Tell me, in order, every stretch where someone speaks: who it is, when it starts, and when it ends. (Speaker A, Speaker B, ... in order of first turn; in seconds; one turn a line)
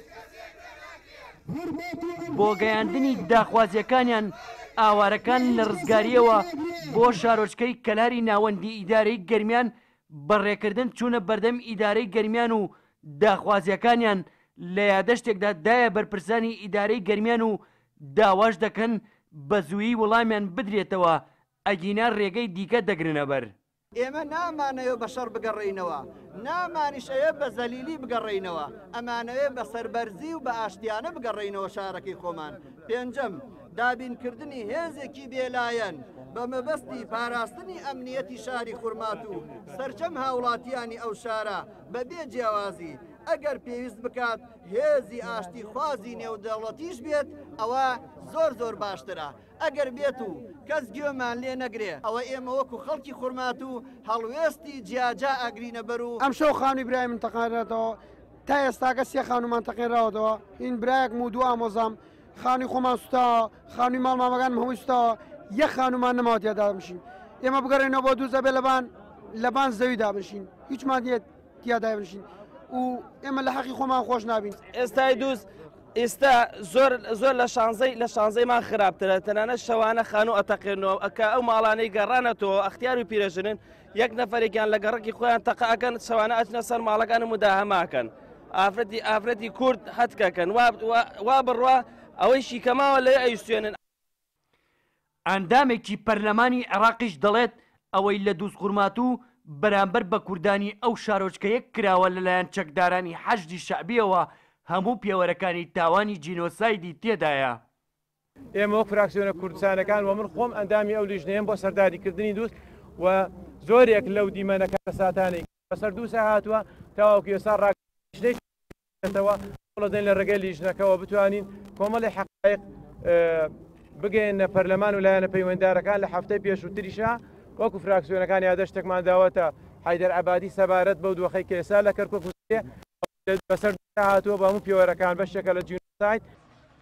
Speaker A: 2.2-23.5
Speaker B: 24.0-56.2
Speaker C: 56.2-74.6
Speaker D: 74.7-93.8
Speaker A: 95.3-107.6
Speaker E: 108.5-118.4
Speaker E: 119.0-132.7
Speaker E: 133.3-136.2